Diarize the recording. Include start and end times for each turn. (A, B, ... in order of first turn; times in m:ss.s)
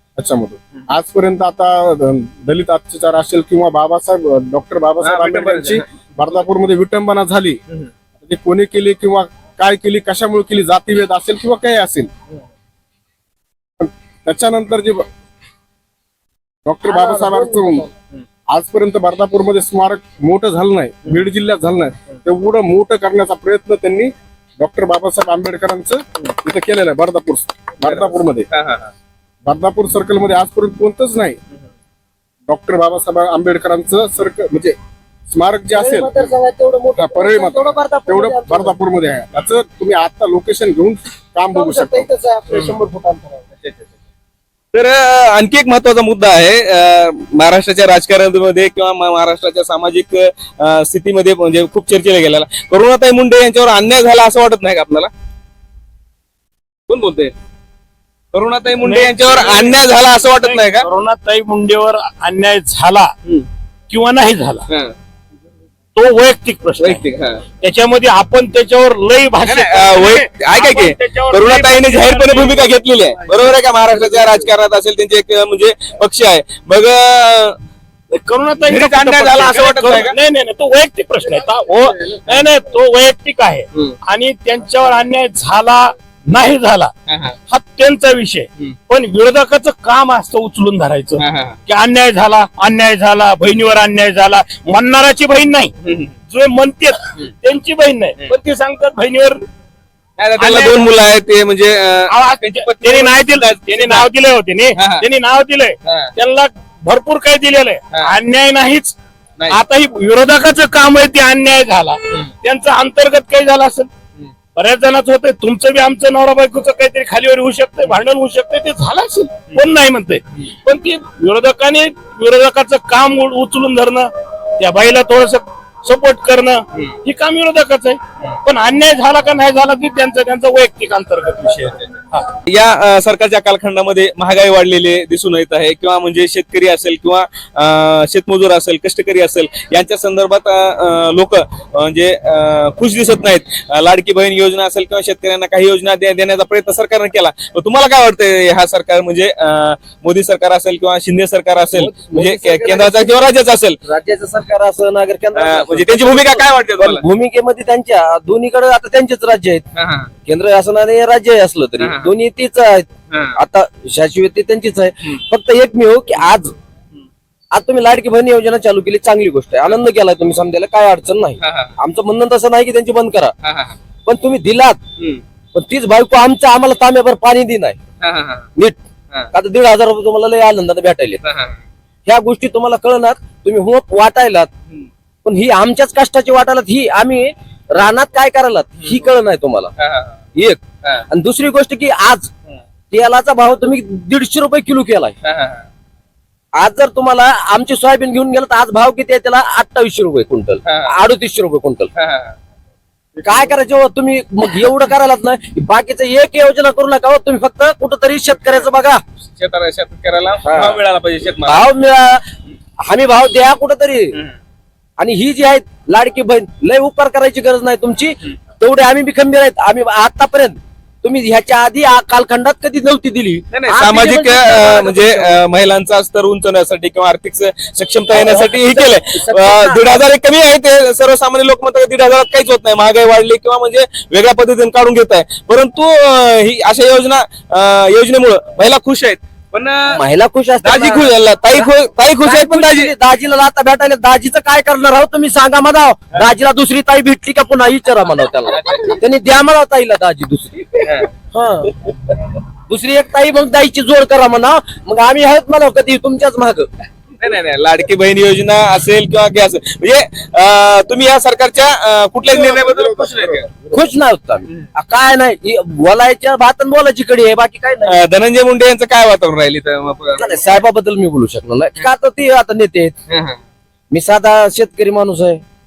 0:00.2-0:07.6 A
0:05.0-0:05.8 B
0:08.2-0:12.1 A
0:13.8-0:15.1 A
0:16.6-0:17.9 A
0:16.9-0:17.9 C
0:18.5-0:28.5 A
0:27.8-0:28.9 B
0:29.4-0:31.4 A
0:32.5-0:34.8 A
0:35.3-0:36.1 A
0:35.7-0:38.7 C
0:37.0-0:42.1 A
0:41.5-0:43.4 C
0:43.6-0:43.9 B
0:44.7-0:55.1 B
0:56.9-0:57.3 B
0:58.3-1:00.9 B
0:58.8-0:59.8 D
1:00.4-1:03.1 D
1:03.9-1:04.6 D
1:05.9-1:07.0 D
1:06.8-1:07.4 B
1:07.6-1:12.6 D
1:09.4-1:17.6 B
1:18.1-1:26.9 D
1:18.6-1:20.1 B
1:27.1-1:27.4 B
1:27.5-1:35.7 D
1:31.2-1:31.6 B
1:35.8-1:36.1 B
1:36.3-1:39.4 D
1:40.2-1:44.1 B
1:40.4-1:40.8 D
1:42.1-1:48.9 D
1:44.8-1:45.0 B
1:45.8-1:46.1 B
1:49.5-1:53.9 D
1:54.5-2:12.3 D
2:12.4-2:33.8 B
2:31.7-2:33.3 E
2:33.8-2:39.6 E
2:35.3-2:37.0 B
2:39.7-2:40.1 B
2:40.2-2:46.5 E
2:41.8-2:42.1 B
2:43.1-2:43.4 B
2:47.5-2:53.3 E
2:51.4-2:51.7 B
2:53.4-2:53.8 B
2:54.0-2:54.8 E
2:55.5-2:57.8 E
2:58.0-2:58.5 B
2:59.3-3:01.2 E
3:01.2-3:01.5 B
3:02.1-3:04.5 E
3:05.2-3:09.7 E
3:09.8-3:10.2 B
3:10.4-3:12.3 E
3:12.9-3:15.1 E
3:15.2-3:15.6 B
3:16.6-3:21.9 E
3:20.6-3:20.9 B
3:21.9-3:22.3 B
3:23.2-3:29.0 E
3:29.2-3:31.7 B
3:30.4-3:30.8 E
3:31.4-3:32.2 E
3:32.8-3:34.2 E
3:35.0-3:45.4 E
3:43.5-4:00.0 B
3:48.1-3:49.8 E
3:59.9-4:01.7 E
4:00.6-4:02.9 B
4:02.2-4:11.7 E
4:08.5-4:09.0 B
4:10.8-4:11.1 B
4:12.7-4:16.7 E
4:17.2-4:23.7 B
4:22.3-4:23.6 A
4:23.7-4:28.0 E
4:27.8-4:30.4 B
4:30.2-4:32.9 E
4:33.1-4:33.4 B
4:33.9-4:35.4 E